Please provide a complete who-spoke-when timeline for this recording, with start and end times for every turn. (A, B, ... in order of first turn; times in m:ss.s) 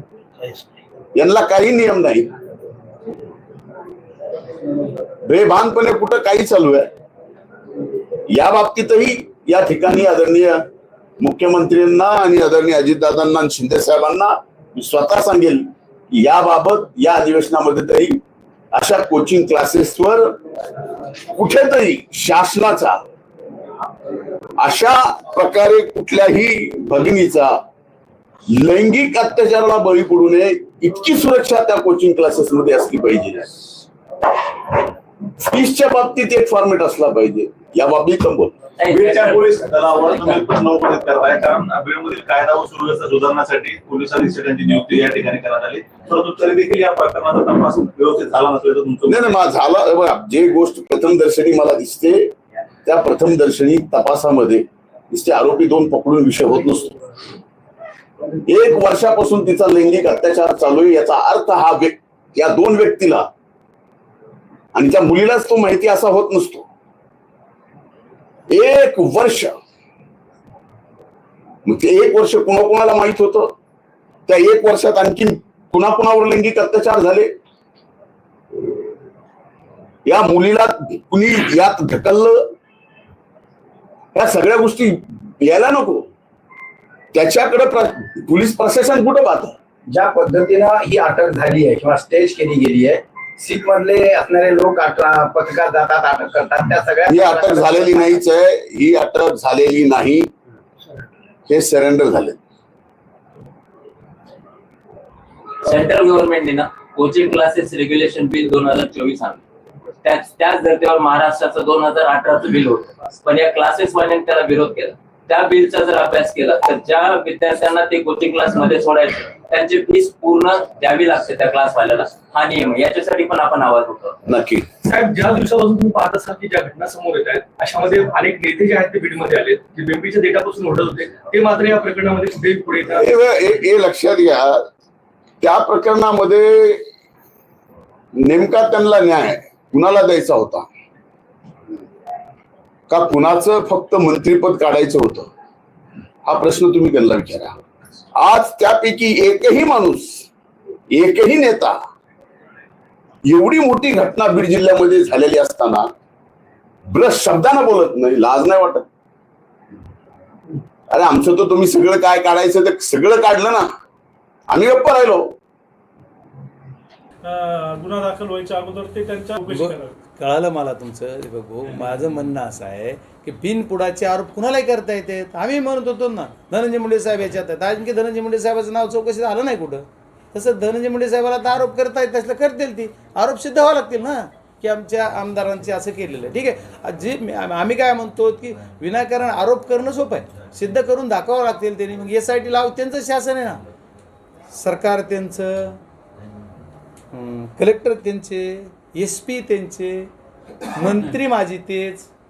0:01.2-0:02.3 A
0:05.2-0:06.9 A
0:08.3-0:10.7 A
0:11.2-0:18.2 A
0:18.7-0:20.4 A
0:21.3-0:23.0 A
0:24.6-0:27.6 A
0:28.5-0:33.6 A
0:35.4-0:38.6 A
0:38.8-0:39.6 B
0:38.8-0:49.4 C
0:49.1-0:52.3 A
0:52.8-0:57.0 A
0:58.4-1:03.3 A
1:04.7-1:06.7 A
1:08.5-1:09.6 A
1:11.7-1:13.5 A
1:14.3-1:17.3 A
1:20.0-1:22.5 A
1:24.1-1:26.1 A
1:27.1-1:29.6 A
1:29.9-1:38.2 D
1:37.1-1:40.3 A
1:41.5-1:42.4 A
1:45.6-1:49.4 B
1:50.0-2:04.2 B
2:04.2-2:04.7 A
2:04.8-2:13.1 E
2:12.9-2:14.7 A
2:15.4-2:16.9 A
2:18.2-2:20.7 A
2:22.9-2:25.3 A
2:26.2-2:27.6 A
2:28.2-2:30.3 A
2:30.9-2:31.8 A
2:33.2-2:35.9 A
2:36.9-2:38.9 A
2:40.9-2:43.7 A
2:44.5-2:45.4 A
2:47.2-2:49.9 F
2:49.5-3:13.6 G
3:14.5-3:15.8 G
3:17.1-3:20.1 G
3:20.7-3:22.1 G